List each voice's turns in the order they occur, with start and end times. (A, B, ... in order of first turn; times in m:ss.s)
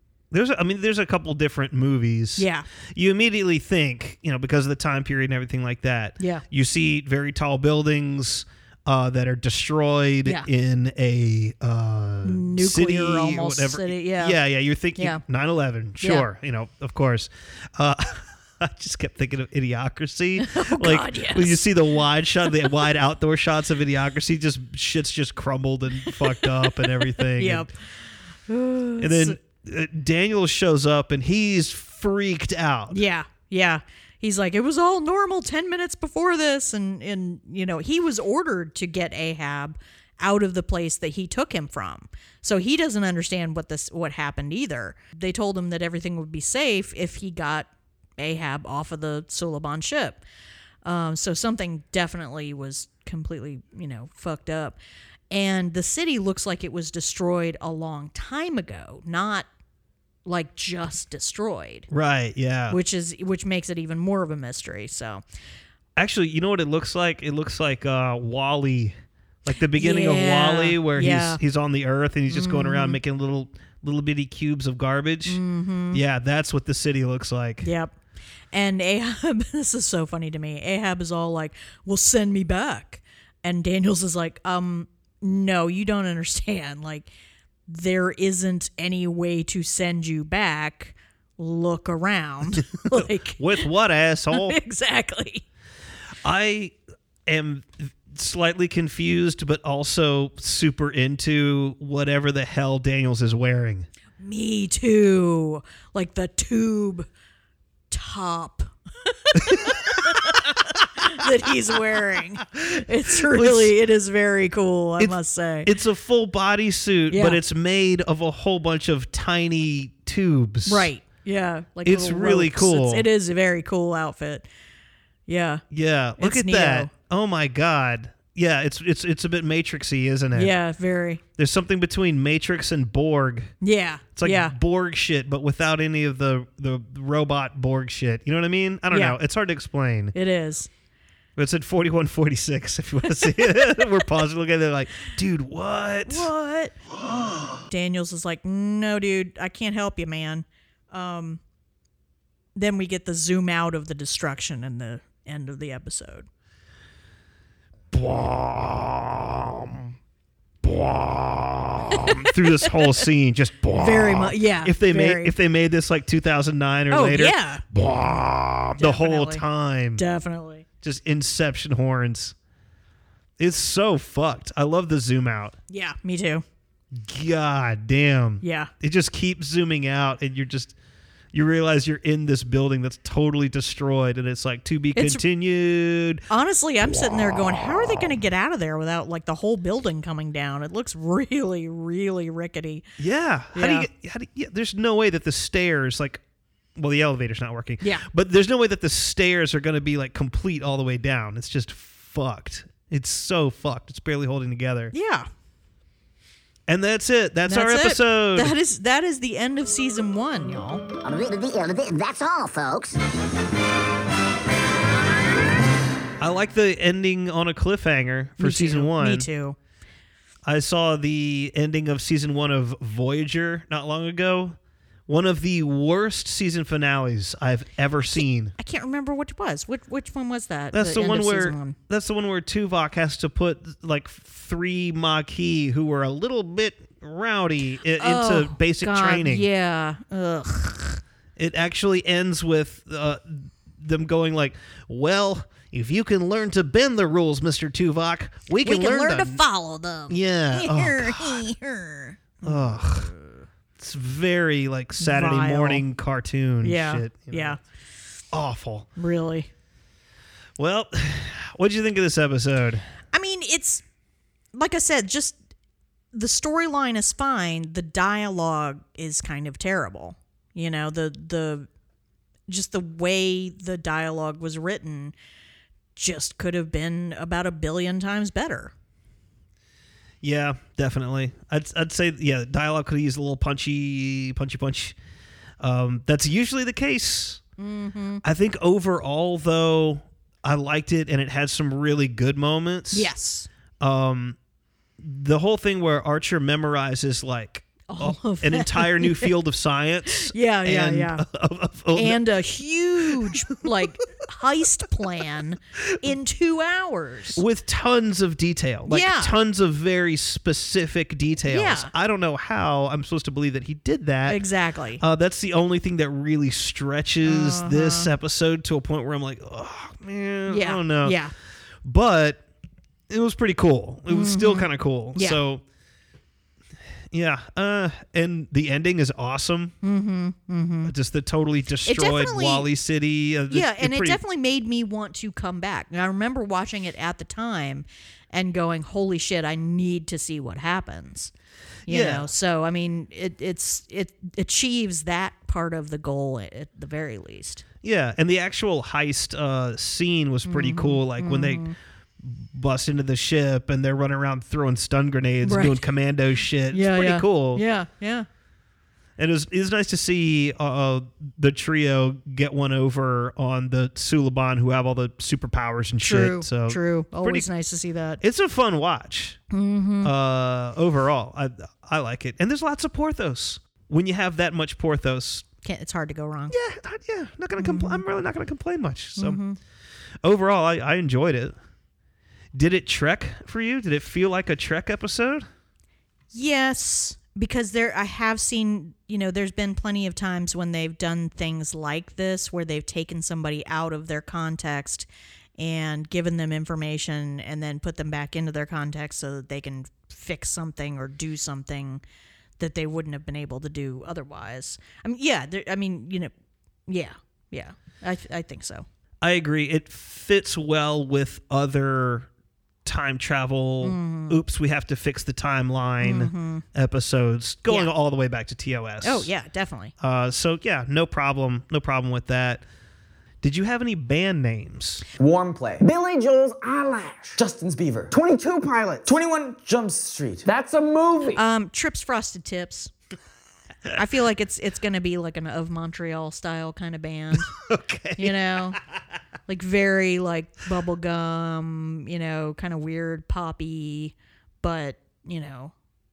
0:00.3-0:27.7 A
0:02.4-0:02.7 B
0:06.2-0:06.4 B
0:12.2-0:14.4 B
0:16.0-0:16.3 B
0:20.4-0:21.7 B
0:26.1-0:27.7 B
0:28.5-0:29.4 B
0:29.0-0:33.0 A
0:32.9-0:50.2 B
0:50.8-0:54.8 B
0:55.3-0:59.5 B
1:00.3-1:01.9 B
1:01.9-1:02.8 A
1:02.7-1:05.2 B
1:06.0-1:15.4 A
1:09.8-1:11.4 B
1:12.3-1:13.0 B
1:15.3-1:16.0 B
1:15.9-1:17.7 A
1:17.6-1:17.9 B
1:18.5-1:27.1 B
1:27.7-1:33.7 B
1:32.8-1:34.6 A
1:34.3-1:35.4 B
1:36.2-1:43.9 A
1:44.2-1:47.1 B
1:47.9-1:55.7 B
1:49.5-1:49.8 A
1:53.3-1:53.7 A
1:55.0-2:00.9 A
1:57.1-1:57.4 B
2:00.7-2:04.5 B
2:01.8-2:03.1 A
2:05.3-2:05.6 B
2:05.7-2:10.5 A
2:06.2-2:06.9 B
2:10.3-2:11.2 B
2:11.4-2:13.5 A
2:13.6-2:14.6 B
2:14.2-2:20.2 A
2:18.9-2:19.2 B
2:20.2-2:20.7 B
2:21.4-2:26.3 A
2:26.1-2:26.8 B
2:27.7-2:31.4 B
2:32.6-2:36.3 B
2:37.9-2:39.9 A
2:40.6-2:50.0 A
2:42.0-2:42.7 B
2:43.8-2:45.3 B
2:46.9-2:47.6 B
2:48.8-2:49.4 B
2:50.0-2:50.6 B
2:50.8-2:52.4 A
2:53.4-2:55.6 A
2:55.7-2:56.4 B
2:56.9-3:00.7 A
2:58.4-2:58.7 B
3:01.3-3:06.2 A
3:05.0-3:05.2 B
3:06.3-3:12.8 B
3:13.0-3:16.2 A
3:13.5-3:13.9 B
3:16.8-3:24.9 A
3:17.8-3:18.1 B
3:24.9-3:25.3 B
3:26.7-3:28.5 A
3:27.4-3:30.8 B
3:31.0-3:33.0 C
3:36.2-3:39.3 A
3:38.4-3:39.6 B
3:40.4-3:44.6 A
3:45.1-3:48.6 A
3:48.2-3:51.8 B
3:50.7-3:59.5 A
3:58.0-4:01.0 B
4:01.4-4:09.4 A
4:08.6-4:13.3 B
4:10.1-4:11.4 A
4:12.4-4:13.1 A
4:13.8-4:17.6 A
4:15.0-4:15.8 B
4:16.6-4:17.6 B
4:18.3-4:18.9 A
4:19.0-4:19.5 B
4:20.6-4:22.9 A
4:23.1-4:23.8 B
4:24.5-4:25.4 B
4:26.1-4:31.7 B
4:32.5-4:35.1 B
4:36.0-4:38.7 B
4:40.2-4:45.0 A
4:45.6-4:47.4 A
4:47.6-4:48.2 B
4:48.2-4:53.1 A
4:52.9-4:53.5 B
4:53.8-4:54.4 A
4:55.0-5:02.2 A
4:57.9-4:59.3 B
5:00.1-5:01.2 B
5:02.0-5:07.4 B
5:03.0-5:03.7 A
5:07.3-5:14.4 A
5:08.9-5:09.4 B
5:11.5-5:11.9 B
5:14.3-5:15.0 B
5:15.0-5:21.2 A
5:17.2-5:18.1 B
5:20.5-5:21.3 B
5:21.8-5:22.4 A
5:23.1-5:25.6 A
5:24.1-5:25.4 B
5:27.1-5:29.7 A
5:29.8-5:30.9 B
5:30.8-5:34.2 A
5:31.9-5:32.7 B
5:33.5-5:41.3 B
5:41.9-5:42.3 A
5:41.9-5:47.6 B
5:47.8-5:57.6 A
5:50.5-5:51.8 B
5:55.4-5:55.8 B
5:56.7-5:58.3 B
5:59.2-6:07.5 A
6:06.0-6:08.2 B
6:08.2-6:09.4 A
6:09.5-6:10.1 B
6:10.0-6:15.4 A
6:15.6-6:16.6 B
6:16.5-6:19.4 A
6:17.6-6:18.0 B
6:19.2-6:19.6 B
6:20.2-6:21.6 A
6:22.5-6:25.5 A
6:26.3-6:42.0 B
6:42.6-6:46.3 B
6:46.9-6:48.9 B
6:49.2-6:52.3 A
6:52.8-6:59.3 A
6:53.8-6:54.4 B
6:56.0-6:56.6 B
6:59.0-6:59.9 B
7:00.0-7:02.6 A
7:03.4-7:05.0 A
7:05.2-7:11.4 D
7:11.3-7:12.9 B
7:13.9-7:17.5 B
7:17.4-7:18.8 A
7:18.2-7:18.8 B
7:19.5-7:25.7 B